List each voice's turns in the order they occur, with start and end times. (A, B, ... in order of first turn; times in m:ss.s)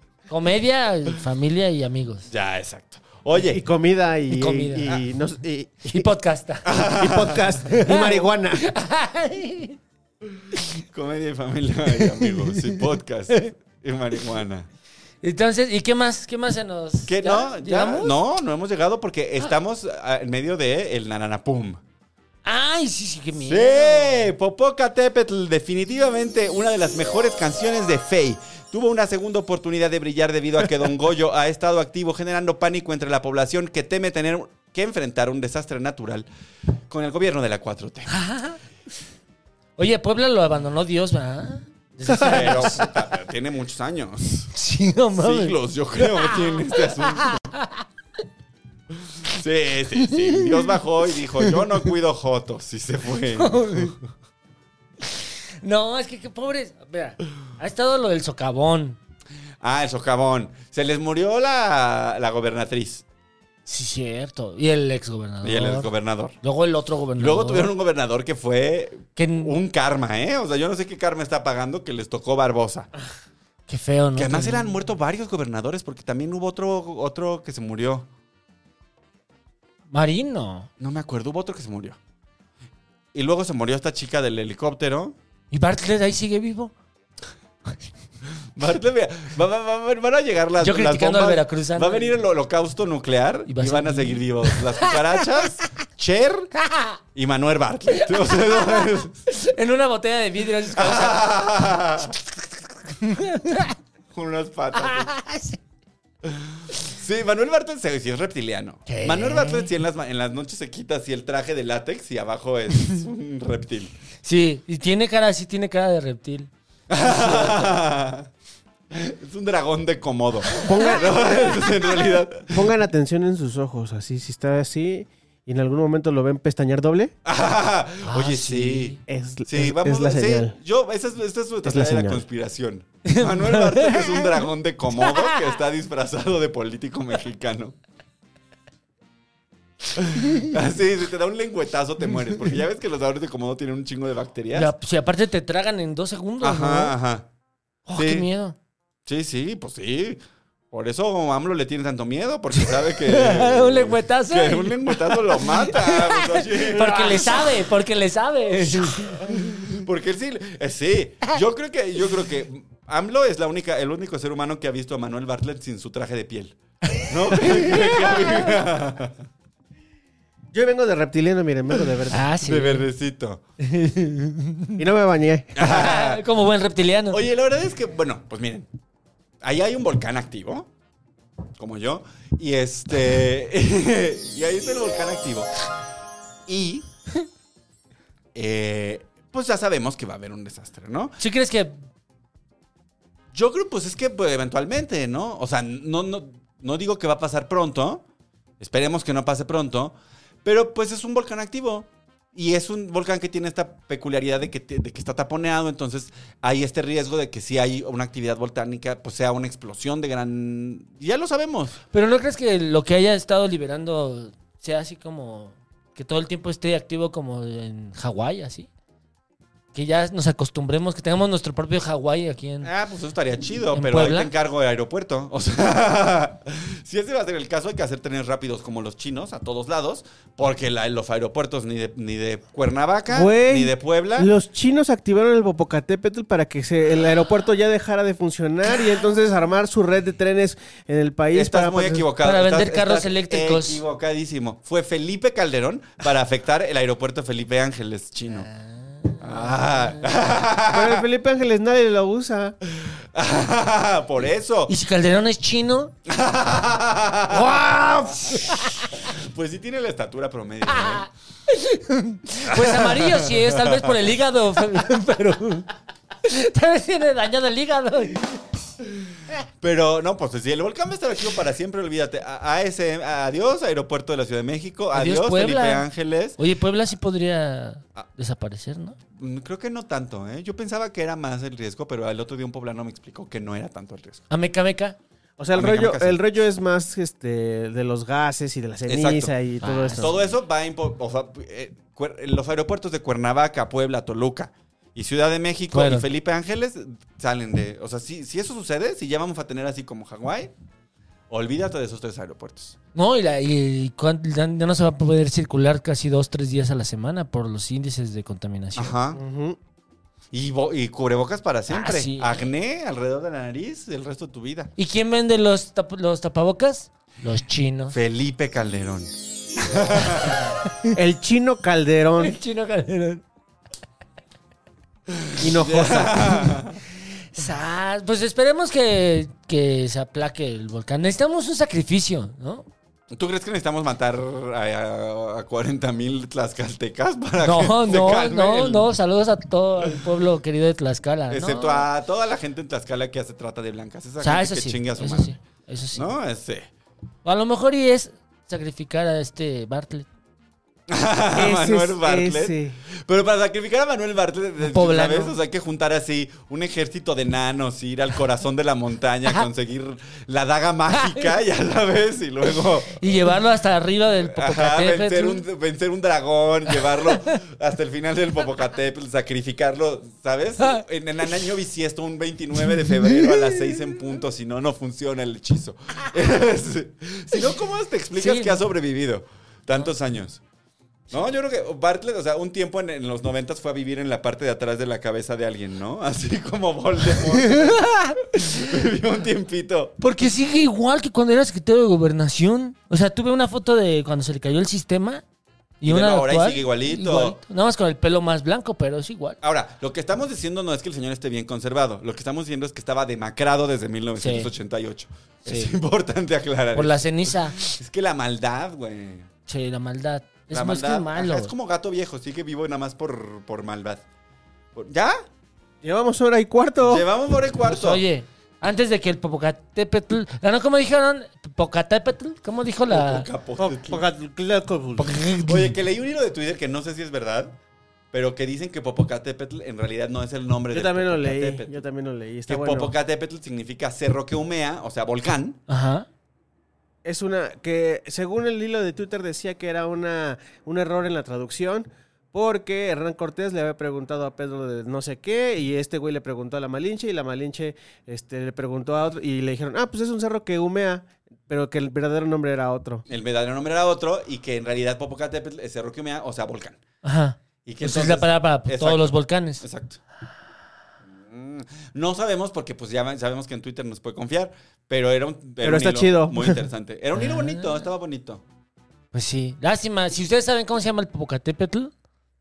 0:00.3-0:02.3 A
0:02.3-0:03.6 B
0:03.4-0:06.1 C
0:04.3-0:05.0 A
0:05.9-0:06.7 A
0:06.6-0:07.5 B
0:06.8-0:08.6 C
0:07.6-0:09.8 A
0:10.9-0:14.7 B
0:11.9-0:12.8 A
0:15.2-0:18.1 A
0:17.1-0:21.8 B
0:22.4-0:24.3 A
0:23.4-0:36.3 B
0:36.9-0:38.2 B
0:38.1-0:38.6 A
0:39.8-0:42.9 A
0:42.1-0:44.5 B
0:44.5-0:47.8 A
0:45.2-0:47.6 B
0:49.2-0:54.0 B
0:50.1-0:50.8 A
0:53.4-0:54.0 A
0:55.1-0:59.0 A
0:59.6-1:03.0 B
1:03.7-1:05.9 A
1:05.4-1:06.4 B
1:06.4-1:07.7 A
1:07.2-1:12.9 B
1:09.2-1:09.6 A
1:13.7-1:14.8 A
1:14.2-1:18.1 B
1:19.9-1:20.7 A
1:20.8-1:22.0 B
1:23.1-1:25.2 B
1:25.5-1:26.7 A
1:28.6-1:36.6 B
1:30.6-1:32.1 A
1:33.5-1:35.2 A
1:37.1-1:39.2 B
1:38.2-1:41.7 A
1:40.8-1:42.2 B
1:43.0-1:43.8 A
1:44.1-1:45.1 B
1:44.8-1:45.6 A
1:46.2-1:53.9 B
1:48.9-1:49.7 A
1:54.2-1:57.7 A
1:56.9-1:58.3 B
1:58.9-2:02.7 B
2:00.6-2:01.5 C
2:02.5-2:07.2 C
2:07.2-2:17.8 B
2:08.1-2:09.0 A
2:09.1-2:10.6 C
2:11.6-2:12.2 C
2:13.1-2:14.3 A
2:20.0-2:24.7 B
2:24.5-2:26.9 A
2:26.4-2:27.3 B
2:27.9-2:28.6 A
2:27.9-2:28.3 B
2:29.1-2:37.7 B
2:32.6-2:39.8 A
2:38.7-2:49.2 B
2:46.9-2:48.6 A
2:50.5-2:52.3 C
2:52.1-2:52.8 A
2:52.4-2:53.4 B
2:53.6-2:54.8 A
2:54.8-2:55.6 C
2:55.6-2:56.2 B
2:55.6-2:57.2 A
2:57.1-2:58.7 B
2:59.4-3:00.7 B
3:01.6-3:05.7 B
3:06.5-3:06.9 B
3:08.4-3:11.2 B
3:11.2-3:11.8 A
3:13.3-3:18.0 B
3:18.6-3:31.8 B
3:31.9-3:38.7 A
3:39.7-3:42.7 A
3:42.6-3:54.3 B
3:43.8-3:44.3 A
3:53.1-4:02.1 C
4:01.3-4:08.5 B
4:02.2-4:03.8 A
4:08.4-4:10.0 A
4:09.2-4:11.0 B
4:10.7-4:12.6 C
4:12.8-4:14.7 B
4:14.7-4:15.9 A
4:16.1-4:21.1 B
4:17.3-4:18.9 A
4:20.7-4:25.7 A
4:22.5-4:24.0 B
4:26.2-4:28.4 A
4:29.6-4:36.4 B
4:34.9-4:35.9 A
4:36.4-4:39.0 A
4:39.2-4:44.3 B
4:44.3-4:45.0 A
4:45.4-4:50.3 C
4:45.6-4:46.2 B
4:48.9-4:49.3 B
4:49.6-4:50.1 A
4:50.0-5:00.5 B
4:55.7-4:56.1 A
5:01.3-5:02.8 B
5:03.0-5:08.9 A
5:08.8-5:09.2 B
5:09.1-5:09.6 C
5:10.3-5:14.7 B
5:11.7-5:12.4 A
5:14.8-5:18.0 A
5:17.9-5:20.5 B
5:20.9-5:22.3 C
5:22.2-5:23.2 A
5:25.1-5:26.8 B
5:25.4-5:26.5 C
5:27.4-5:32.7 A
5:33.1-5:38.9 B
5:37.4-5:41.9 A
5:41.3-5:45.4 B
5:44.2-5:46.1 A
5:46.0-5:46.7 B
5:47.2-5:50.1 A
5:50.9-6:03.3 B
5:51.4-5:52.8 C
5:54.7-5:55.4 A
6:03.0-6:05.4 A
6:04.1-6:20.4 B
6:06.9-6:07.4 A
6:12.8-6:13.8 A
6:18.2-6:18.6 A
6:21.1-6:30.0 B
6:27.3-6:28.7 A
6:30.0-6:35.2 A
6:35.8-6:39.4 A
6:35.8-6:37.4 B
6:39.4-6:49.3 B
6:44.2-6:44.5 A
6:45.5-6:45.7 A
6:46.7-6:47.7 A
6:49.5-6:51.5 A
6:50.5-6:54.0 B
6:54.8-6:55.2 B
6:55.8-6:57.1 C
6:56.8-6:58.0 B
6:57.6-7:03.3 A
7:02.9-7:04.0 B
7:03.6-7:05.1 C
7:05.0-7:07.6 B
7:08.1-7:11.8 B
7:10.7-7:12.9 C
7:12.5-7:15.6 B
7:15.7-7:16.1 A
7:17.0-7:33.0 C
7:33.1-7:36.8 B
7:37.0-7:39.6 A
7:37.7-7:40.0 B
7:41.1-7:48.4 B
7:45.6-7:46.7 C
7:47.2-7:47.8 A
7:49.1-7:51.9 A